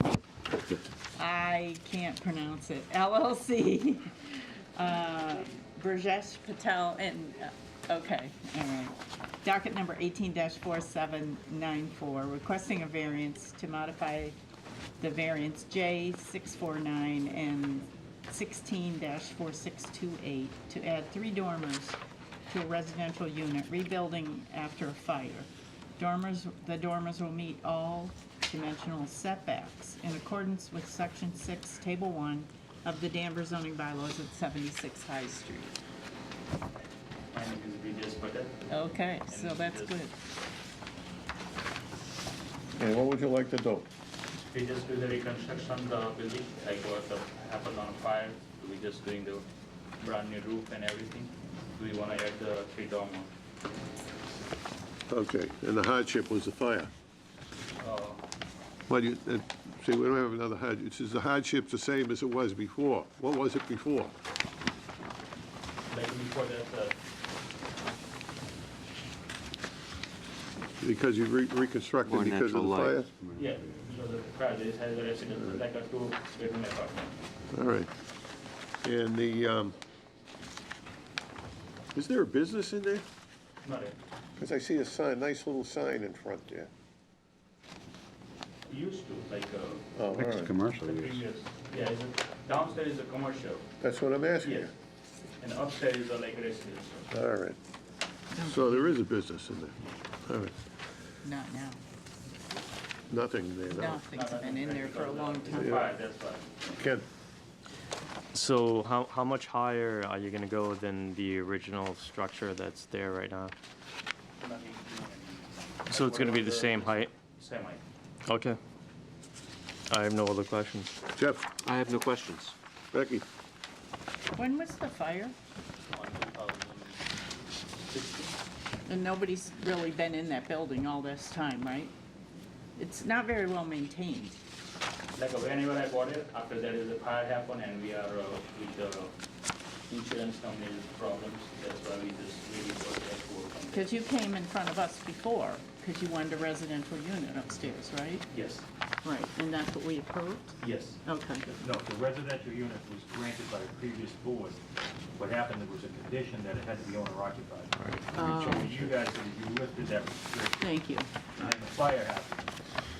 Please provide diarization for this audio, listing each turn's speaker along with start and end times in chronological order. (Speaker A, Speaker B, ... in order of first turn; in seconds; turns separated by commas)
Speaker A: 1.1-14.4, Speaker A: 15.0-22.0, Speaker A: 22.5-35.8, Speaker B: 37.3-38.7, Speaker A: 38.7-40.1, Speaker B: 39.3-40.0, Speaker C: 42.8-43.9, Speaker B: 44.5-49.4, Speaker B: 50.0-53.3, Speaker C: 55.1-56.9, Speaker B: 57.8-58.2, Speaker C: 58.9-64.1, Speaker B: 65.9-66.9, Speaker C: 70.8-73.1, Speaker D: 72.0-73.0, Speaker E: 73.1-74.0, Speaker B: 73.3-77.1, Speaker C: 77.5-77.9, Speaker C: 78.8-79.8, Speaker C: 81.9-83.0, Speaker B: 83.6-84.0, Speaker C: 84.4-86.7, Speaker B: 88.7-89.8, Speaker C: 90.0-90.5, Speaker E: 90.1-91.2, Speaker B: 90.8-93.6, Speaker C: 93.8-94.7, Speaker B: 94.4-94.7, Speaker B: 95.4-97.1, Speaker C: 97.1-97.6, Speaker A: 98.3-99.0, Speaker C: 98.4-100.5, Speaker A: 101.2-101.8, Speaker C: 103.1-104.0, Speaker A: 103.7-105.9, Speaker B: 104.1-106.5, Speaker C: 105.6-105.9, Speaker C: 106.7-107.0, Speaker F: 108.3-113.5, Speaker B: 114.4-117.8, Speaker F: 115.9-117.1, Speaker F: 118.3-118.6, Speaker F: 119.9-120.9, Speaker C: 121.2-121.5, Speaker D: 121.6-122.5, Speaker C: 122.9-123.2, Speaker A: 124.3-125.3, Speaker B: 125.9-127.0, Speaker B: 127.8-128.3, Speaker A: 128.8-131.9, Speaker A: 132.8-134.4, Speaker B: 135.2-139.1, Speaker B: 139.9-143.9, Speaker A: 143.7-148.3, Speaker B: 148.3-148.7, Speaker A: 149.0-151.5, Speaker B: 150.6-151.0, Speaker G: 151.5-154.6, Speaker G: 155.2-160.7, Speaker A: 158.1-158.8, Speaker A: 160.6-161.1, Speaker G: 161.4-162.5